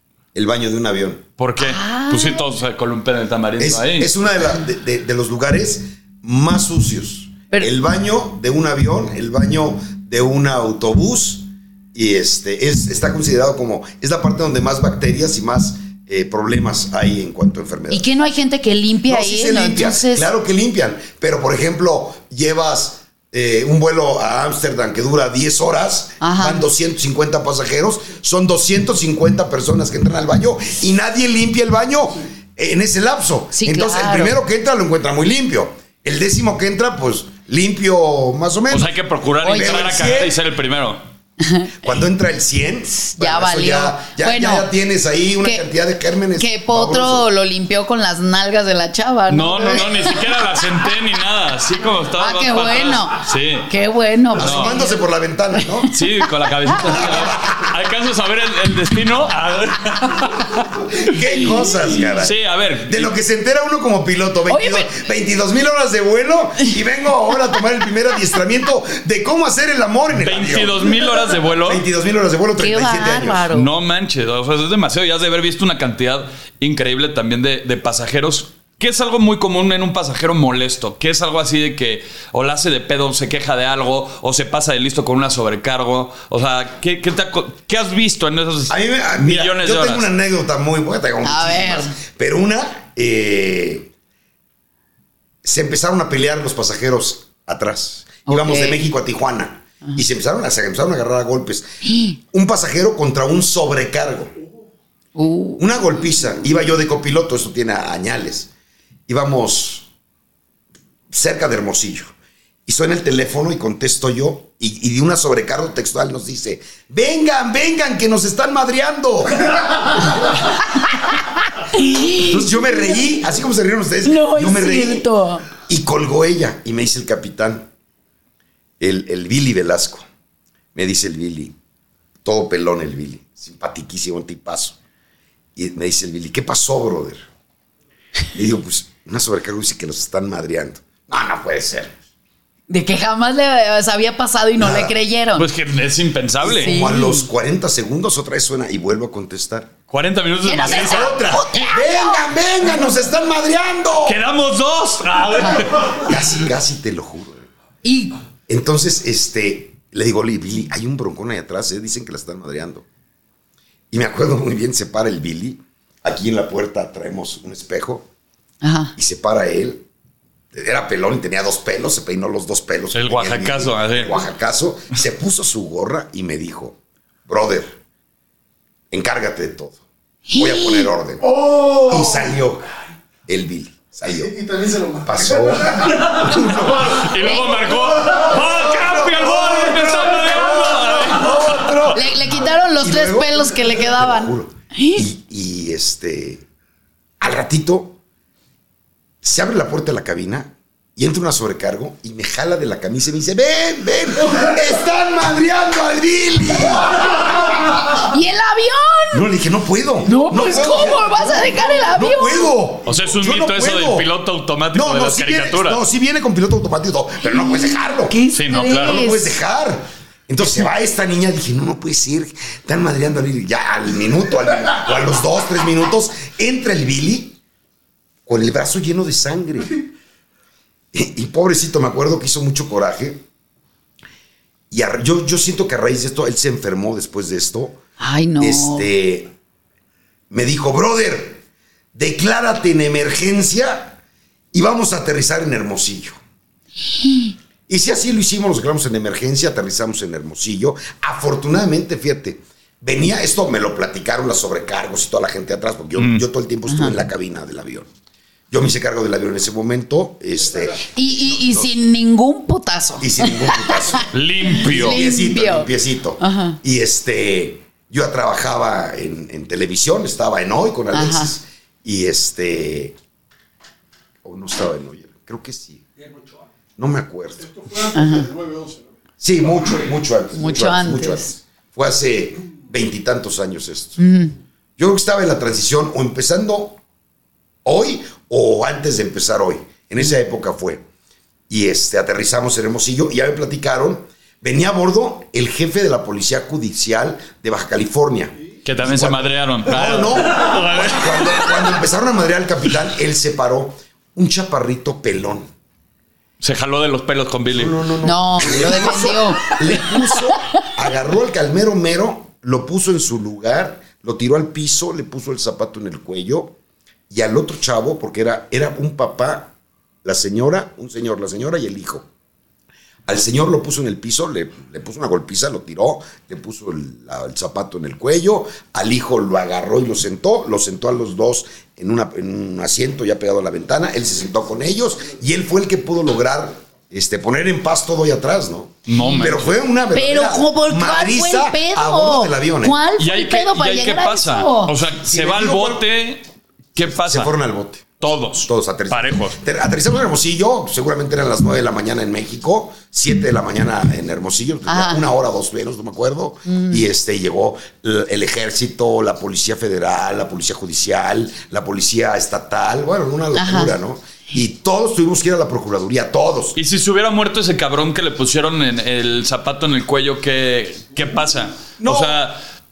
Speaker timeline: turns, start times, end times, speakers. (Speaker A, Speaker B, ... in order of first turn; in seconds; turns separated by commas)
Speaker A: 0.3-1.2, Speaker B: 1.4-4.1, Speaker C: 1.6-2.5, Speaker A: 3.6-18.0, Speaker C: 17.9-20.3, Speaker A: 19.1-38.9, Speaker C: 26.2-26.6, Speaker C: 33.5-34.3, Speaker B: 38.7-41.0, Speaker C: 39.4-39.9, Speaker A: 39.5-40.4, Speaker C: 41.4-42.0, Speaker A: 41.8-47.2, Speaker C: 43.0-44.7, Speaker C: 46.4-50.3, Speaker B: 49.3-53.7, Speaker C: 52.2-55.0, Speaker A: 54.3-55.9, Speaker B: 54.4-54.8, Speaker C: 55.5-57.1, Speaker B: 55.9-63.1, Speaker A: 56.9-57.6, Speaker A: 60.9-71.0, Speaker C: 64.5-64.9, Speaker B: 70.2-71.8, Speaker A: 71.5-73.5, Speaker C: 72.6-73.7, Speaker B: 73.5-90.1, Speaker A: 88.7-93.9, Speaker C: 91.2-91.9, Speaker A: 95.4-101.7, Speaker C: 98.2-98.9, Speaker C: 101.8-102.2, Speaker A: 102.3-104.3, Speaker C: 105.2-105.7, Speaker A: 105.6-108.5, Speaker A: 109.1-109.9, Speaker A: 111.1-112.1, Speaker A: 112.7-119.6, Speaker C: 121.6-123.0, Speaker A: 122.2-125.0, Speaker C: 124.0-125.5, Speaker A: 125.6-127.7, Speaker A: 128.8-130.0, Speaker A: 130.7-131.6, Speaker A: 132.2-134.8, Speaker A: 135.6-137.2, Speaker A: 138.3-141.9, Speaker C: 142.7-145.5, Speaker A: 144.6-145.0, Speaker B: 145.4-146.7, Speaker A: 146.4-149.7, Speaker C: 146.6-147.3, Speaker B: 149.9-151.2, Speaker C: 150.4-152.2, Speaker A: 150.6-154.2, Speaker B: 154.0-156.1, Speaker A: 155.8-157.5, Speaker C: 157.8-158.2, Speaker A: 158.5-162.8, Speaker A: 163.9-168.1, Speaker C: 168.6-168.9, Speaker A: 168.9-169.8, Speaker A: 170.5-177.8, Speaker B: 172.9-174.2, Speaker A: 178.9-179.8, Speaker C: 180.3-180.9, Speaker A: 180.3-182.7, Speaker D: 181.3-182.3, Speaker A: 183.3-184.3, Speaker D: 184.1-186.0, Speaker A: 185.0-187.0, Speaker B: 186.0-191.8, Speaker C: 187.2-187.6, Speaker A: 188.4-196.4, Speaker C: 191.9-195.1, Speaker A: 197.2-198.0, Speaker A: 199.2-207.2, Speaker C: 207.9-209.3, Speaker A: 209.1-214.1, Speaker C: 210.1-212.5, Speaker B: 212.8-215.8, Speaker A: 214.7-218.2, Speaker C: 217.2-219.3, Speaker B: 218.3-219.1, Speaker A: 218.7-227.4, Speaker A: 228.3-229.8, Speaker A: 230.9-233.2, Speaker A: 234.7-237.8, Speaker C: 238.0-238.9, Speaker A: 238.4-239.3, Speaker A: 240.3-241.4, Speaker A: 241.9-244.0, Speaker A: 244.5-246.2, Speaker C: 246.8-247.3, Speaker A: 247.7-257.9, Speaker B: 255.9-256.2, Speaker C: 256.7-256.9, Speaker A: 258.5-261.7, Speaker C: 260.9-266.6, Speaker A: 263.0-264.1, Speaker B: 264.1-265.0, Speaker A: 264.6-272.9, Speaker C: 270.9-271.3, Speaker A: 274.2-275.8, Speaker A: 276.8-277.5, Speaker D: 277.4-278.9, Speaker C: 277.9-278.3, Speaker A: 279.2-284.0, Speaker C: 280.3-281.3, Speaker C: 284.0-284.3, Speaker A: 284.8-286.8, Speaker A: 287.6-290.8, Speaker A: 291.5-305.5, Speaker B: 298.6-301.8, Speaker B: 306.4-307.8, Speaker A: 307.5-316.5, Speaker C: 308.0-310.4, Speaker A: 317.1-319.5, Speaker A: 320.0-322.1, Speaker A: 323.1-342.8, Speaker B: 338.9-339.5, Speaker C: 339.9-344.8, Speaker B: 343.0-347.3, Speaker A: 345.0-345.9, Speaker A: 346.8-347.8, Speaker B: 348.0-349.4, Speaker A: 348.4-366.6, Speaker C: 354.7-355.0, Speaker C: 356.5-356.9, Speaker C: 363.3-363.7, Speaker B: 366.6-372.4, Speaker A: 371.8-372.1